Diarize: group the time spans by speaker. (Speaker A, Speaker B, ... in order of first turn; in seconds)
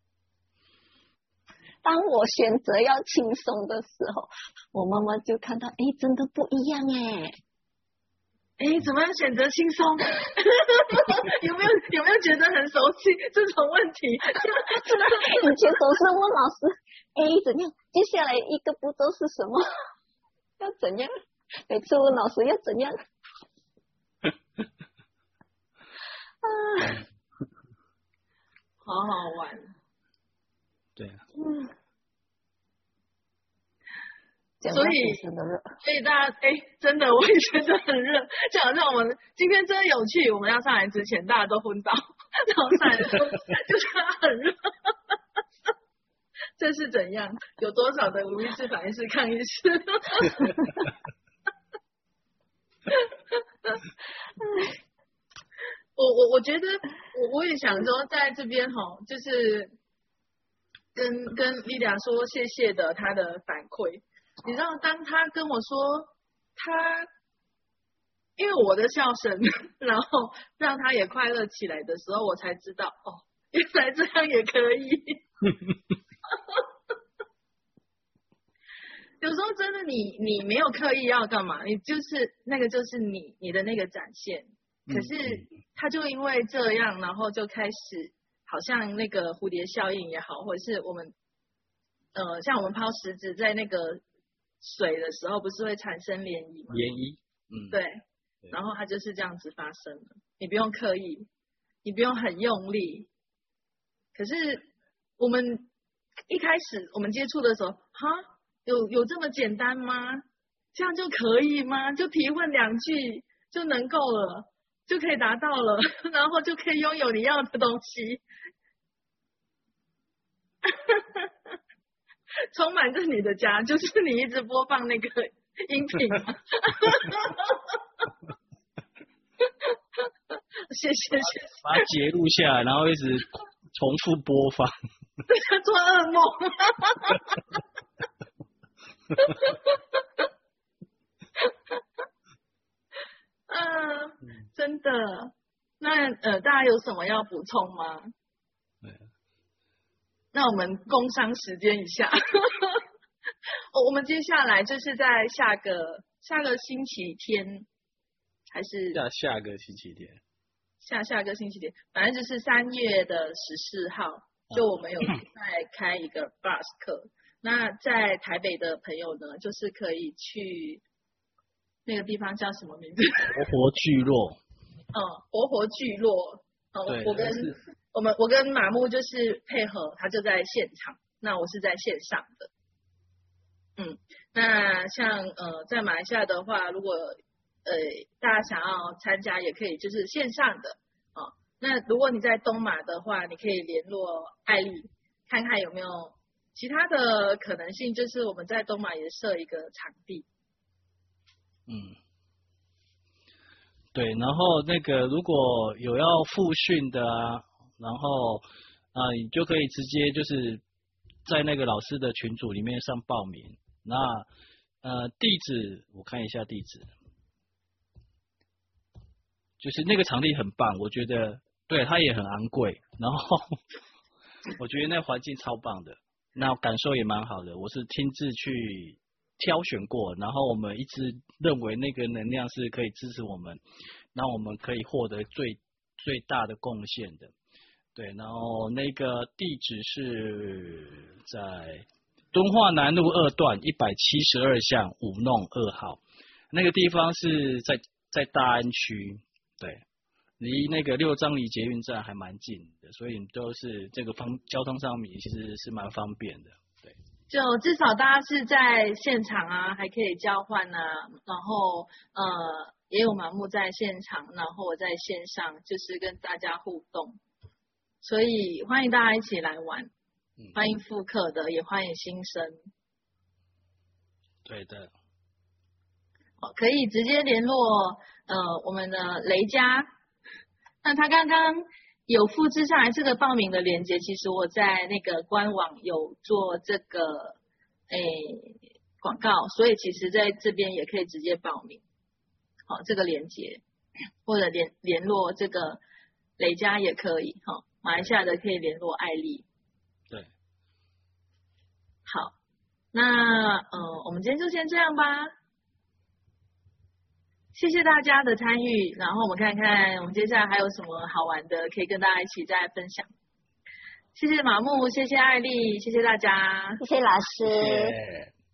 Speaker A: 1.8-7.3, 14.7-19.6, 20.6-21.1, 21.6-23.0, 26.4-27.0, 31.4-31.7, 34.6-35.8, 316.8-317.9
Speaker B: 8.6-15.5, 28.8-29.7, 34.7-35.2, 35.8-44.9, 46.6-50.7, 56.0-59.7, 60.9-67.1, 68.4-75.2, 79.2-91.1, 92.1-94.0, 94.6-96.8, 97.7-101.3, 101.8-103.1, 104.1-105.7, 106.3-118.2, 120.6-121.3, 122.5-127.6, 129.6-130.1, 130.7-131.8, 135.3-137.2, 139.2-140.2, 143.5-148.1, 150.3-152.8, 153.7-157.7, 158.5-159.0, 160.8-170.8, 171.8-173.4, 174.9-182.5, 183.8-200.2, 257.3-267.2, 268.0-269.9, 270.5-272.6, 276.4-279.9, 280.8-287.4, 287.9-291.8, 292.7-293.6, 294.2-295.8, 296.4-299.4, 302.1-302.3, 302.9-305.3, 307.5-313.1, 314.1-316.8
Speaker C: 31.0-31.2, 84.9-85.4, 96.7-97.8, 131.2-134.7, 158.9-160.2, 173.3-174.4, 176.9-177.6, 201.7-202.0, 203.9-210.6, 211.2-214.2, 214.8-216.9, 219.6-223.6, 224.5-233.6, 234.1-237.3, 237.9-249.8, 250.4-256.9, 274.4-274.9, 317.5-318.3